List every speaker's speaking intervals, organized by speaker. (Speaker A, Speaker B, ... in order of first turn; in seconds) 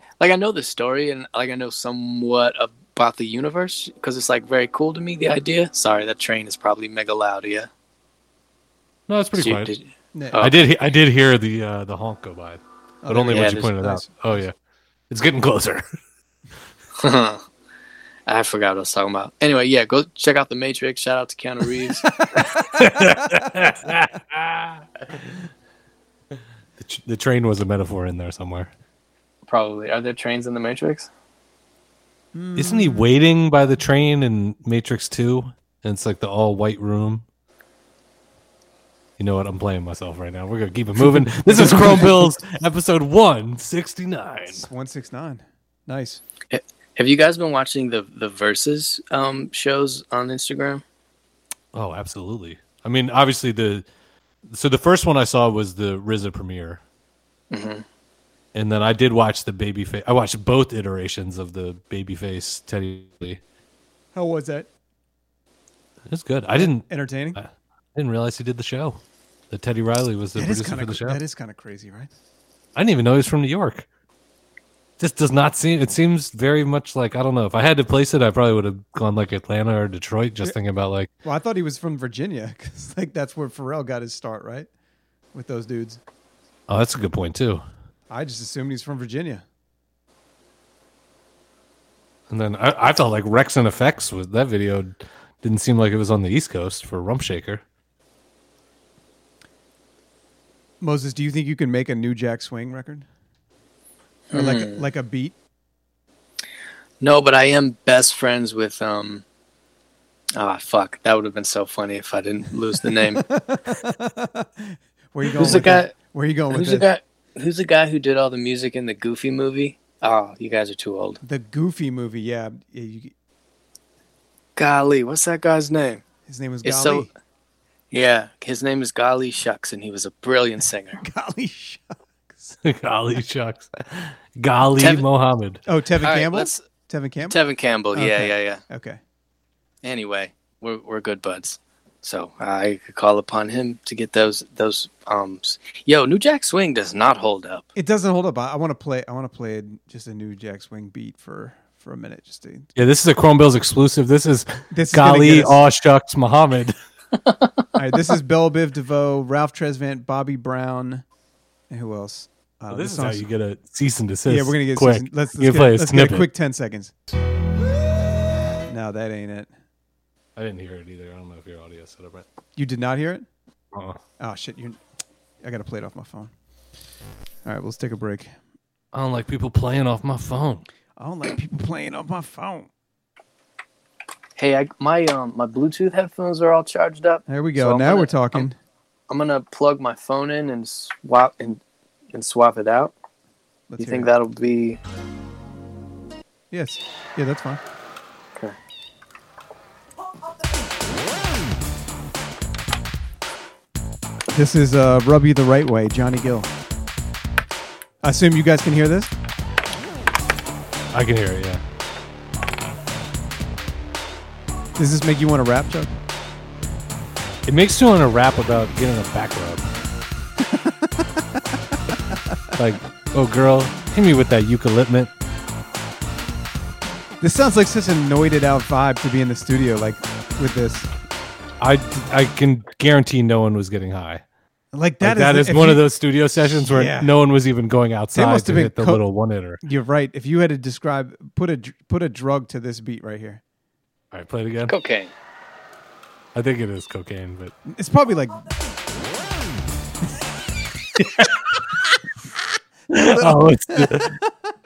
Speaker A: 0.2-7.7, 9.3-10.6, 13.3-13.7, 17.0-17.4, 18.3-22.1, 29.5-31.1, 46.5-50.8, 57.5-57.8, 104.3-104.8, 107.0-109.2, 110.3-113.2, 115.3-115.9, 116.5-121.2, 124.5-126.0, 126.6-127.1, 127.9-131.0, 134.8-135.0, 136.0-136.6, 137.2-138.6, 139.8-147.7, 184.4-188.5, 189.1-191.6, 192.1-192.9, 193.8-194.8, 244.7-245.1
Speaker B: 9.1-9.7, 10.3-14.5, 15.1-15.8, 22.4-24.8, 26.8-28.7, 32.5-37.2, 39.2-44.7, 51.7-53.9, 54.5-56.8, 58.5-63.4, 66.1-71.2, 72.8-73.8, 75.0-81.1, 86.7-87.6, 92.3-97.6, 132.6-135.6, 152.8-156.8, 162.7-166.3, 170.3-172.2, 173.7-174.0, 178.9-180.7, 210.9-211.6, 217.4-219.7, 222.6-225.1, 231.6-234.2, 235.0-239.6, 244.1-244.7, 246.3-247.5, 251.0-251.3, 252.9-254.2
Speaker C: 10.1-10.4, 13.0-14.3, 22.3-23.2, 32.3-33.1, 41.0-42.3, 44.5-46.2, 64.1-64.7, 66.5-67.4, 70.3-72.1, 81.2-84.7, 85.3-86.0, 88.1-89.4, 100.8-103.0, 104.3-105.3, 113.0-116.9, 121.2-123.1, 126.3-127.1, 131.0-132.6, 135.7-137.4, 137.9-139.0, 147.7-152.7, 154.7-155.6, 157.8-161.0, 161.7-163.2, 164.2-166.9, 168.7-169.5, 172.6-173.3, 174.2-174.8, 175.4-176.3, 177.4-178.3, 181.0-182.7, 187.3-188.6, 193.7-194.1, 196.5-197.6, 204.3-206.5, 208.0-209.1, 214.8-216.0, 220.4-221.1, 227.2-230.9, 234.7-235.8, 236.5-237.1, 238.1-239.0, 239.6-243.4, 247.7-248.5, 253.0-254.2